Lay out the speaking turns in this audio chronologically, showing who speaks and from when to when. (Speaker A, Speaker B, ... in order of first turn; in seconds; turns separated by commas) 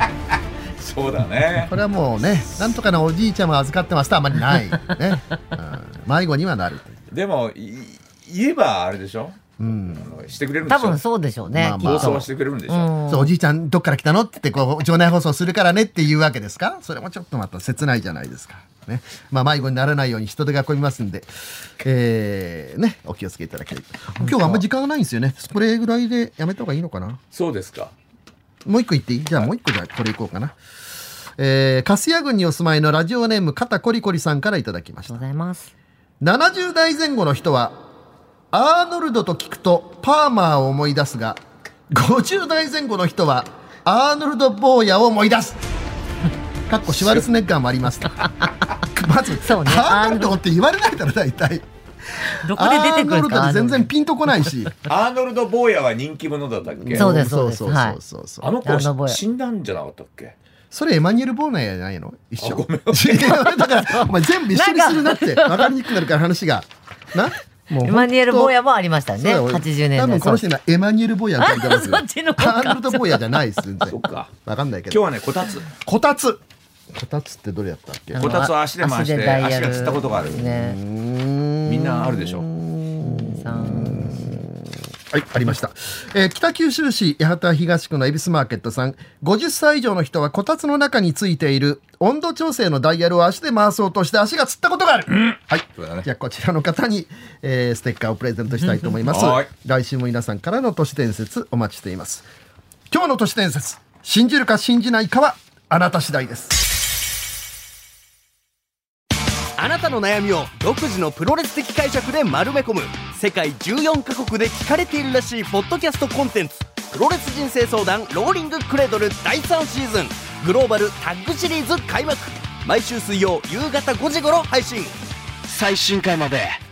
Speaker A: 0.8-1.7, Speaker B: 1.6-7.0, Speaker A: 7.1-11.0, Speaker B: 9.6-10.1, Speaker C: 10.7-13.3, Speaker B: 11.5-12.2, Speaker A: 11.8-12.9, Speaker B: 13.1-27.2, Speaker C: 24.2-24.6, Speaker A: 27.3-27.9, Speaker B: 28.7-30.6, Speaker B: 31.4-35.2, Speaker C: 35.1-35.7, Speaker B: 36.2-37.8, Speaker B: 38.5-45.6, Speaker B: 46.7-48.3, Speaker A: 47.0-47.2, Speaker B: 48.8-51.7, Speaker C: 49.4-50.4, Speaker C: 52.3-53.9, Speaker B: 52.5-54.8, Speaker A: 54.9-57.1, Speaker B: 56.8-58.5, Speaker C: 56.9-58.0, Speaker A: 58.4-60.4, Speaker C: 58.6-59.2, Speaker B: 60.7-68.5, Speaker A: 62.4-63.5, Speaker C: 63.5-65.8, Speaker C: 67.8-70.5, Speaker B: 69.1-75.0, Speaker C: 71.4-73.5, Speaker A: 73.8-74.3, Speaker A: 74.9-75.7, Speaker B: 75.7-76.4, Speaker B: 76.9-78.3, Speaker C: 78.1-80.8, Speaker A: 78.2-80.5, Speaker B: 80.4-84.5, Speaker A: 81.7-82.5, Speaker C: 83.0-84.4, Speaker B: 85.1-102.3, Speaker A: 95.1-96.1, Speaker A: 99.1-99.5, Speaker B: 102.9-106.6, Speaker D: 109.6-125.0, Speaker D: 125.5-126.6